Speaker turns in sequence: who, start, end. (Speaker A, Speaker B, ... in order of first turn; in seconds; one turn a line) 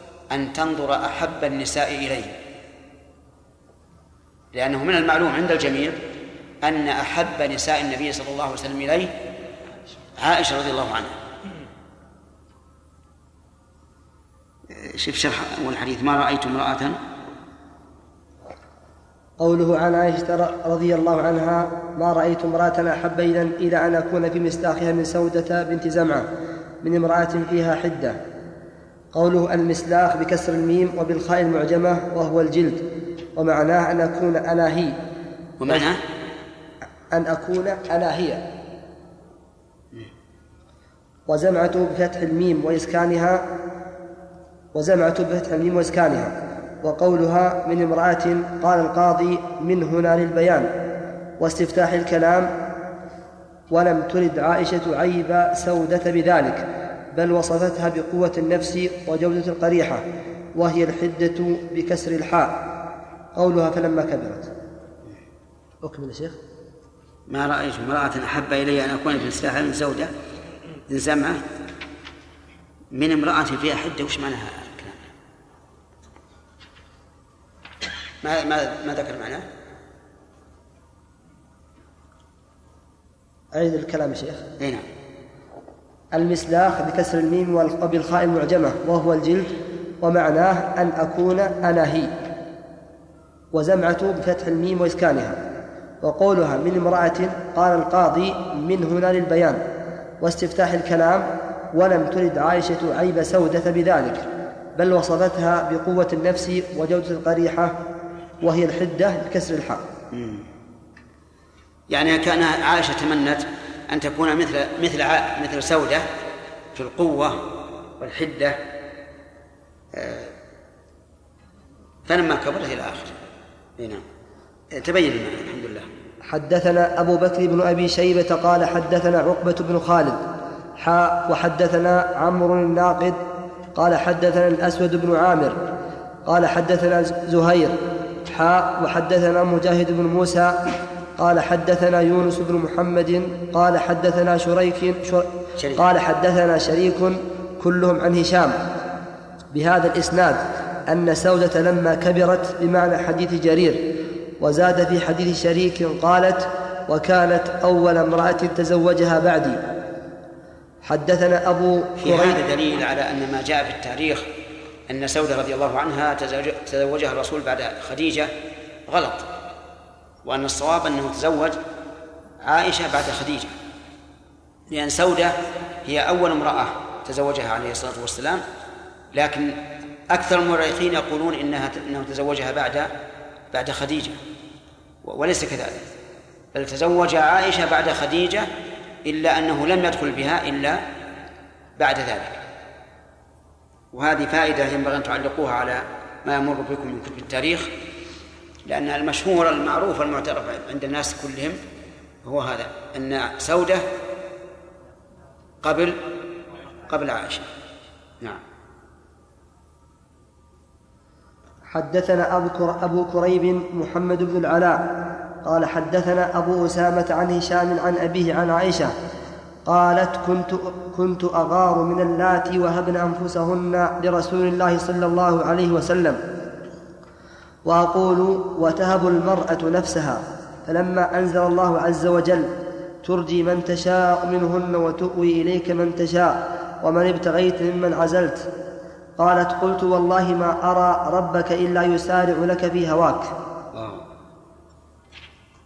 Speaker A: 0.3-2.3
Speaker A: 4.5-6.0
Speaker A: 6.6-9.1
Speaker A: 10.2-11.2
Speaker A: 14.7-17.0
Speaker B: 19.4-26.3
Speaker B: 26.8-28.2
Speaker B: 29.1-32.8
Speaker B: 33.4-35.0
Speaker A: 35.6-36.0
Speaker B: 37.1-38.5
Speaker B: 41.3-43.5
Speaker B: 44.7-50.7
Speaker B: 51.4-52.5
Speaker B: 53.7-62.6
Speaker B: 63.3-64.5
Speaker B: 65.8-66.4
Speaker A: 67.3-70.1
Speaker A: 70.9-71.4
Speaker A: 72.9-75.0
Speaker A: 78.2-79.5
Speaker B: 83.5-84.4
Speaker A: 84.6-84.8
Speaker B: 86.1-92.1
Speaker B: 93.5-95.4
Speaker B: 96.0-99.6
Speaker B: 100.2-107.8
Speaker B: 108.4-109.8
Speaker A: 110.1-110.5
Speaker A: 111.9-116.1
Speaker A: 116.7-118.6
Speaker A: 119.9-120.3
Speaker A: 122.1-123.2
Speaker A: 123.8-124.0
Speaker A: 124.7-125.9
Speaker B: 126.3-130.2
Speaker B: 130.8-133.2
Speaker B: 133.7-135.6
Speaker B: 136.2-140.6
Speaker B: 141.2-148.6
Speaker B: 149.5-159.6
Speaker B: 160.8-162.4
Speaker A: 162.0-164.3
Speaker A: 164.9-168.3
Speaker A: 168.9-169.3
Speaker A: 170.2-171.6
Speaker A: 172.4-173.5
Speaker A: 174.7-178.4
Speaker A: 179.1-182.9
Speaker A: 183.5-184.2
Speaker A: 185.0-185.8
Speaker A: 186.5-188.5
Speaker A: 189.0-190.8
Speaker A: 191.8-192.4
Speaker A: 193.9-197.7
Speaker A: 198.7-201.6
Speaker A: 202.2-203.8
Speaker A: 205.6-206.0
Speaker A: 206.9-207.4
Speaker B: 211.7-214.9
Speaker B: 215.4-218.9
Speaker B: 219.7-226.2
Speaker B: 227.6-238.5
Speaker B: 239.2-243.3
Speaker A: 243.7-244.0